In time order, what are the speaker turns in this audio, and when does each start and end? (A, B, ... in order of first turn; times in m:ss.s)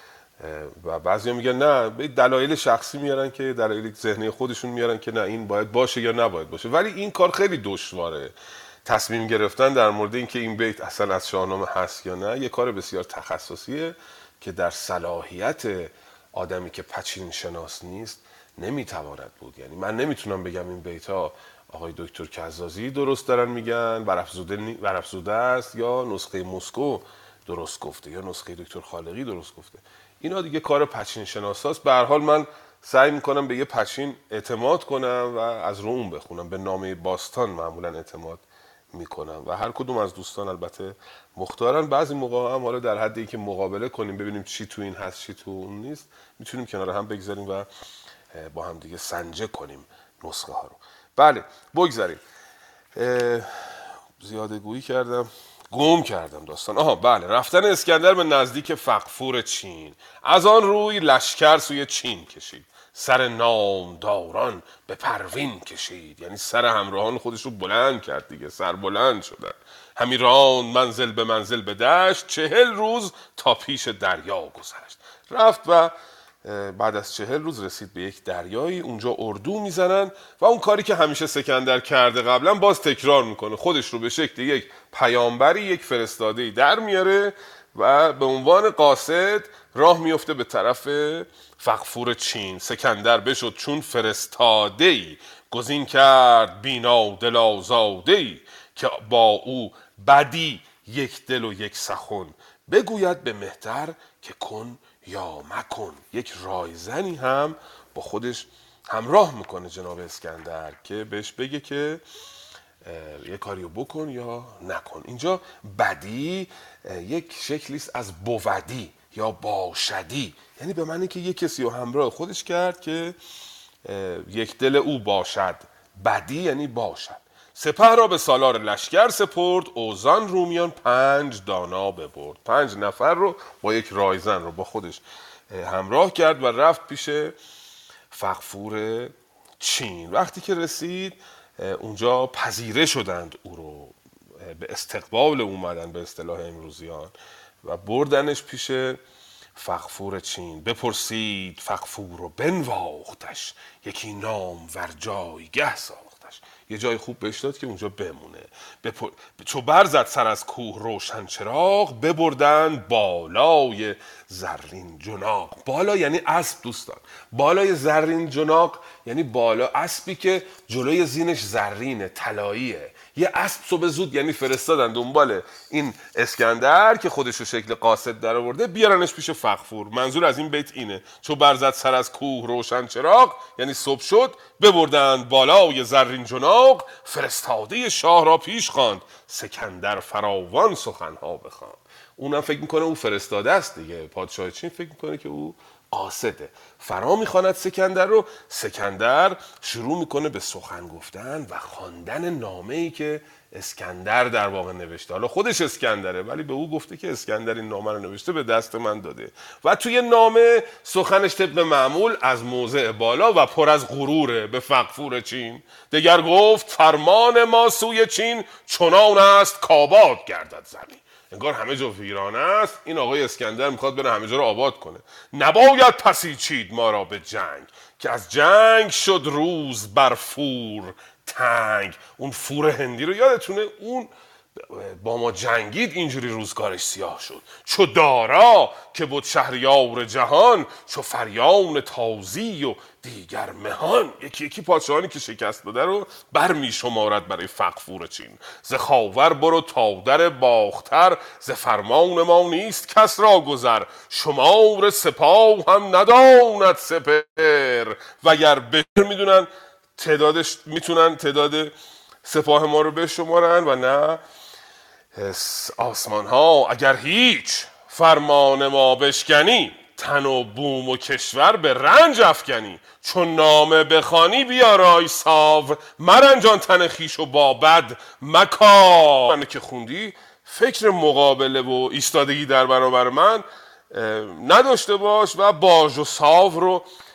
0:00.4-0:47.7 A
0:48.3-0:52.2 A
0:52.9-1:52.0 A
1:52.8-2:03.2 A
2:03.8-2:17.4 A
2:18.1-2:29.0 A
2:29.6-4:21.7 A
4:22.2-4:24.2 A
4:25.1-4:46.9 A